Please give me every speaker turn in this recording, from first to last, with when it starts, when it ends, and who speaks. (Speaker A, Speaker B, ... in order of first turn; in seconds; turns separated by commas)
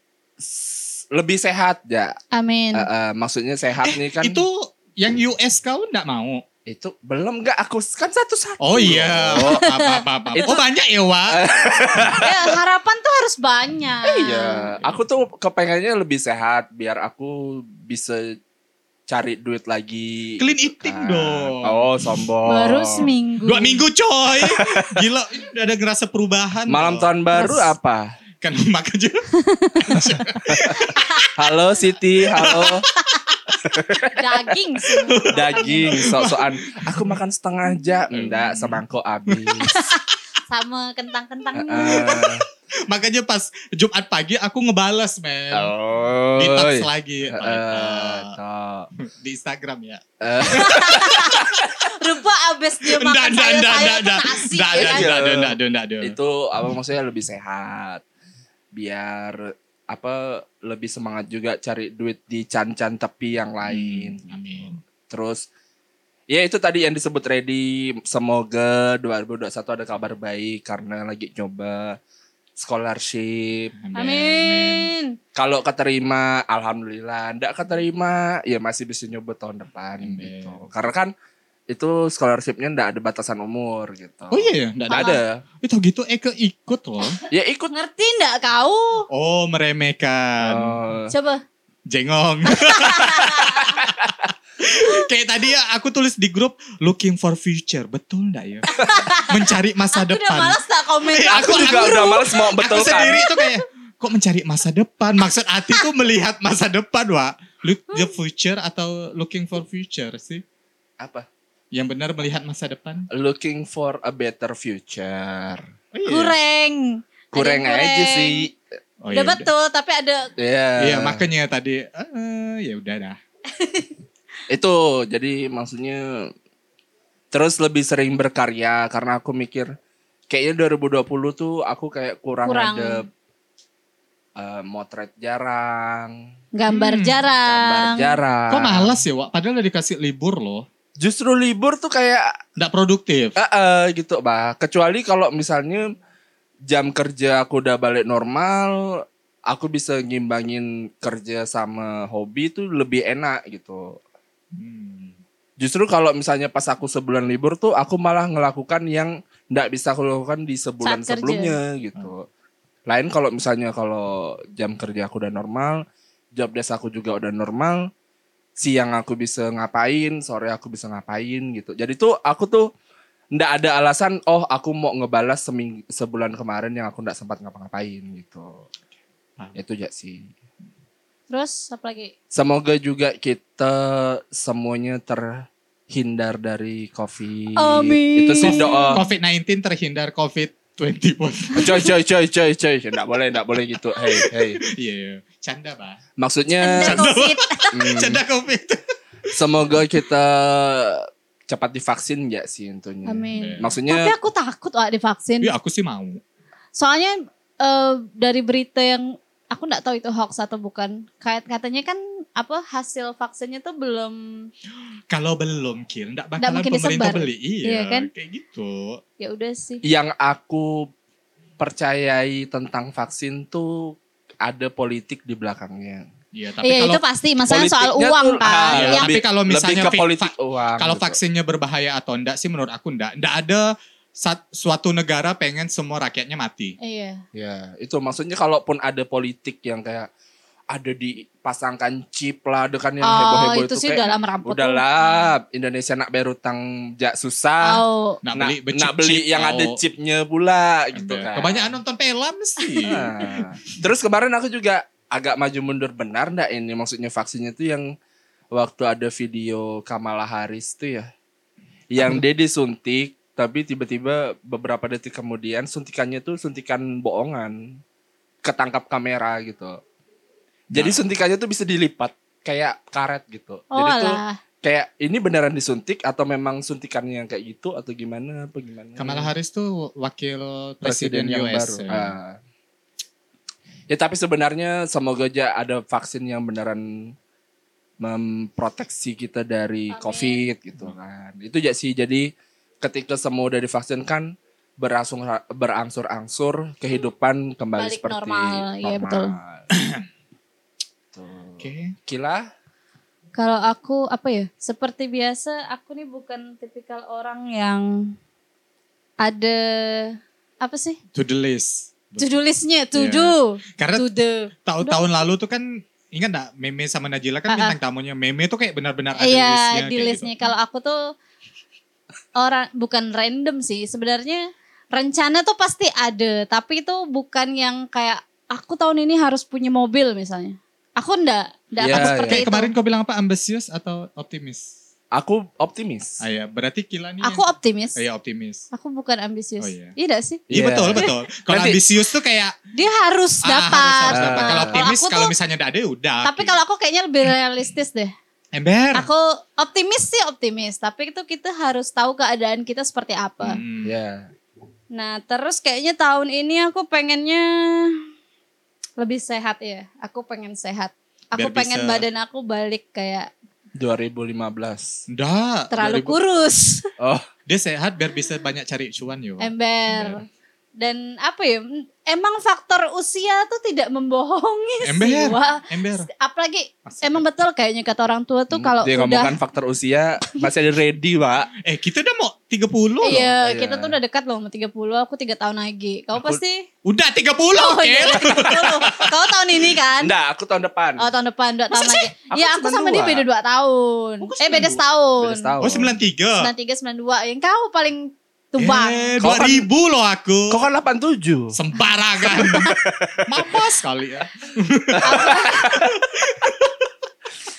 Speaker A: 0.4-2.1, Speaker B: 2.3-2.9, Speaker A: 2.7-4.4, Speaker C: 3.9-6.4, Speaker A: 6.7-9.7, Speaker C: 8.6-11.4, Speaker B: 9.4-10.6, Speaker A: 10.3-10.6, Speaker A: 11.3-12.5, Speaker B: 12.2-14.7, Speaker A: 14.1-18.4, Speaker A: 19.1-23.1, Speaker C: 20.4-22.2, Speaker B: 22.5-23.8, Speaker C: 23.4-27.1, Speaker A: 24.4-25.1, Speaker A: 26.7-28.1, Speaker B: 27.3-27.7, Speaker C: 28.4-29.3, Speaker B: 29.4-30.0, Speaker C: 29.8-31.3, Speaker A: 29.9-30.8, Speaker B: 30.7-31.2, Speaker A: 31.4-32.9, Speaker C: 32.3-32.9, Speaker B: 32.5-33.2, Speaker A: 33.6-34.5, Speaker B: 34.1-36.1, Speaker C: 35.1-37.1, Speaker A: 35.3-39.8, Speaker C: 38.1-39.6, Speaker B: 39.6-42.3, Speaker A: 41.5-42.4, Speaker C: 42.0-42.4, Speaker C: 42.9-45.7, Speaker A: 45.5-48.9, Speaker C: 46.4-48.4, Speaker C: 49.0-51.0, Speaker A: 50.2-51.9, Speaker B: 50.4-55.1, Speaker C: 53.0-56.1, Speaker A: 54.8-58.0, Speaker A: 58.7-64.2, Speaker C: 63.7-64.8, Speaker A: 65.1-65.5, Speaker A: 66.3-72.0, Speaker A: 72.6-73.7, Speaker C: 73.8-74.9, Speaker B: 74.0-75.2, Speaker A: 75.3-81.1, Speaker C: 80.0-80.6, Speaker A: 81.7-85.4, Speaker C: 84.3-87.2, Speaker B: 84.9-85.2, Speaker A: 87.3-87.7, Speaker B: 87.7-89.1, Speaker C: 89.1-90.8, Speaker A: 90.4-91.1, Speaker B: 91.1-91.4, Speaker C: 91.9-110.4, Speaker B: 92.5-93.8, Speaker A: 93.8-94.2, Speaker B: 98.7-102.4, Speaker A: 101.3-103.3, Speaker B: 103.1-103.6, Speaker A: 111.0-111.3, Speaker C: 111.7-113.1, Speaker A: 113.1-115.7, Speaker C: 115.9-116.3, Speaker B: 116.1-118.5, Speaker A: 117.3-118.6, Speaker C: 119.0-119.5, Speaker B: 119.1-120.3, Speaker A: 120.4-121.2, Speaker C: 120.8-123.2, Speaker B: 123.5-123.9, Speaker A: 124.5-126.3, Speaker A: 127.3-129.7, Speaker A: 130.3-133.1, Speaker B: 132.4-133.0, Speaker A: 134.4-136.3, Speaker B: 136.5-138.2, Speaker C: 136.7-137.2, Speaker A: 137.4-139.0, Speaker C: 138.5-140.7, Speaker A: 141.0-142.4, Speaker C: 142.6-143.3, Speaker A: 143.4-145.9, Speaker A: 146.7-154.0, Speaker C: 154.5-155.2, Speaker A: 155.6-162.3, Speaker B: 160.8-161.6, Speaker A: 162.9-165.8, Speaker A: 166.3-167.9, Speaker A: 168.6-172.7, Speaker A: 173.3-178.6, Speaker A: 179.5-180.3, Speaker B: 181.3-182.1, Speaker A: 182.3-189.1, Speaker B: 187.6-189.0, Speaker C: 188.4-191.8, Speaker A: 191.6-194.6, Speaker C: 194.1-196.0, Speaker A: 196.2-197.0, Speaker B: 196.6-197.8, Speaker C: 196.8-199.4, Speaker A: 197.7-198.2, Speaker A: 199.3-204.1, Speaker B: 203.1-205.5, Speaker C: 203.4-203.8, Speaker C: 205.4-206.2, Speaker B: 206.8-214.5, Speaker C: 215.1-219.0, Speaker B: 216.4-218.1, Speaker B: 219.2-219.8, Speaker A: 219.8-220.9, Speaker A: 221.6-226.1, Speaker C: 226.3-227.0, Speaker B: 226.6-229.1, Speaker A: 227.5-231.2, Speaker C: 228.7-236.8, Speaker B: 236.8-237.2, Speaker A: 237.3-240.1, Speaker A: 240.7-247.8, Speaker B: 243.0-244.8, Speaker B: 247.6-248.2, Speaker C: 248.2-249.8, Speaker A: 248.3-251.8, Speaker C: 250.9-253.3, Speaker B: 252.6-252.9, Speaker A: 252.8-257.9, Speaker A: 258.5-261.1, Speaker A: 261.9-267.8, Speaker A: 268.4-269.8, Speaker C: 270.7-271.0, Speaker A: 270.7-279.3, Speaker B: 273.7-274.4, Speaker C: 279.0-282.1, Speaker A: 280.8-282.4, Speaker A: 283.9-287.1, Speaker A: 288.0-299.7, Speaker B: 289.9-290.5, Speaker B: 297.8-299.3, Speaker C: 299.7-300.0, Speaker A: 301.1-302.5, Speaker C: 301.6-301.9, Speaker B: 303.4-308.1, Speaker B: 309.2-311.0, Speaker C: 311.1-312.4, Speaker B: 312.2-315.1, Speaker C: 312.9-314.1, Speaker C: 314.6-320.5, Speaker B: 317.5-317.8, Speaker B: 319.2-321.1, Speaker B: 322.4-332.7, Speaker A: 331.8-332.4, Speaker C: 331.9-334.7, Speaker A: 335.1-336.2, Speaker C: 336.2-337.4, Speaker B: 337.2-338.0, Speaker C: 338.0-338.7, Speaker B: 338.7-340.4, Speaker C: 339.6-339.9, Speaker A: 340.5-341.8, Speaker C: 340.5-342.6, Speaker B: 342.7-345.3, Speaker C: 343.4-346.6, Speaker A: 344.1-344.9, Speaker B: 346.2-348.1, Speaker C: 348.5-349.1, Speaker B: 348.9-353.6, Speaker C: 353.4-353.9, Speaker A: 353.8-354.3, Speaker B: 354.9-358.0, Speaker B: 359.0-363.3, Speaker C: 361.4-362.1, Speaker A: 363.8-365.0, Speaker C: 365.1-366.1, Speaker B: 365.7-366.9, Speaker A: 367.0-367.3, Speaker C: 367.5-370.2, Speaker B: 369.4-370.3, Speaker B: 370.8-379.4, Speaker C: 374.9-376.1, Speaker C: 376.9-377.2, Speaker A: 378.5-381.5, Speaker C: 381.6-383.3, Speaker B: 383.0-386.6, Speaker A: 383.4-383.9, Speaker C: 386.9-389.1, Speaker B: 387.5-390.1, Speaker A: 390.0-391.1, Speaker B: 391.0-395.5, Speaker A: 391.7-393.2, Speaker C: 394.2-394.8, Speaker A: 395.2-396.0, Speaker C: 395.6-396.5, Speaker B: 396.4-399.1, Speaker C: 398.6-400.6, Speaker A: 399.2-399.7, Speaker A: 400.5-401.6, Speaker C: 401.5-406.8, Speaker A: 402.2-403.6, Speaker A: 404.9-406.5, Speaker B: 405.0-405.7